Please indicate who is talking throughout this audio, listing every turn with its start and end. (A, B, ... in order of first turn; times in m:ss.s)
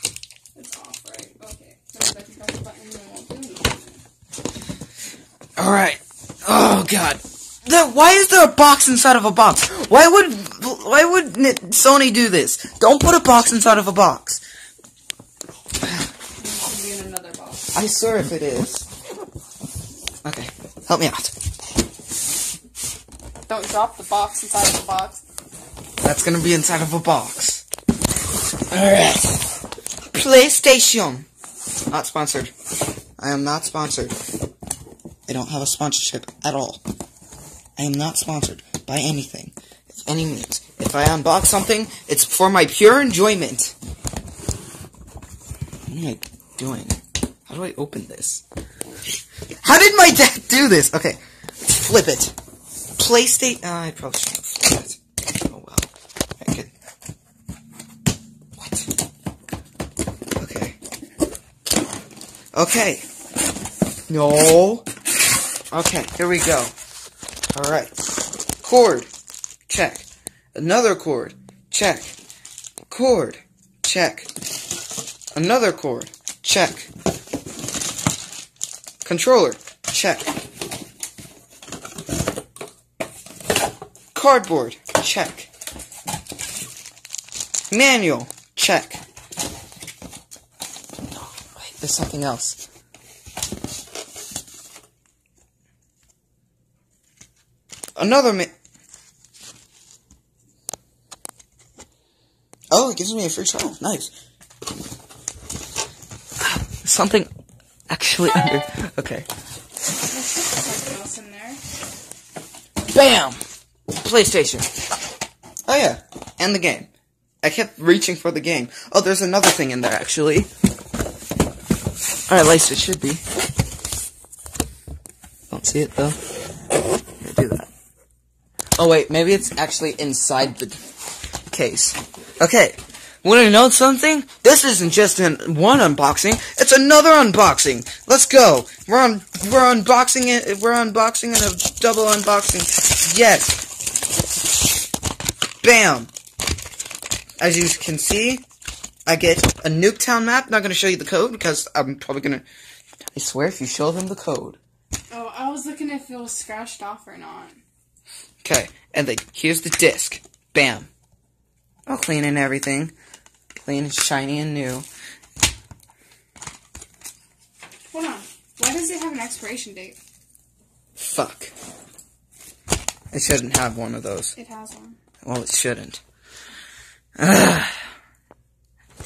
0:00.5-0:04.0 A
0:05.6-0:14.4 B
0:16.4-0:17.7 A
0:17.7-0:18.8 B
0:20.2-0:21.3 B
0:23.5-0:25.2 A
0:26.0-0:27.6 B
0:28.7-0:29.4 B
0:30.1-0:31.3 B
0:31.9-0:32.5 B
0:33.2-0:34.1 B
0:35.3-0:36.8 B
0:37.8-0:43.7 B
0:45.9-0:48.4 B
0:49.6-0:52.3 B
0:53.0-0:56.7 B
0:58.6-0:58.9 B
1:00.4-1:00.8 B
1:02.5-1:03.0 B
1:04.1-1:04.9 B
1:05.7-1:06.7 B
1:07.5-1:07.9 B
1:08.6-1:09.1 B
1:09.7-1:12.1 B
1:12.9-1:14.3 B
1:15.3-1:16.9 B
1:19.0-1:20.3 B
1:24.1-1:25.5 B
1:27.7-1:29.0 B
1:31.1-1:32.6 B
1:38.0-1:38.5 B
1:42.7-1:44.1 B
1:46.4-1:47.3 B
1:47.9-1:49.3 B
1:50.1-1:51.6 A
1:52.9-1:54.7 B
1:55.7-1:56.9 B
1:57.4-2:00.5 B
2:02.3-2:03.2 B
2:05.5-2:06.2 B
2:07.2-2:07.7 B
2:08.8-2:10.8 B
2:11.5-2:23.6 B
2:25.6-2:26.1 B
2:27.4-2:28.4 B
2:29.0-2:32.4 B
2:33.1-2:34.6 B
2:35.1-2:37.6 A
2:38.4-2:40.9 B
2:41.9-2:42.9 B
2:43.6-2:44.8 B
2:47.9-2:50.0 A
2:51.0-2:51.5 B
2:53.1-2:54.3 B
2:54.3-2:55.0 A
2:55.2-2:56.0 B
2:57.2-2:57.8 B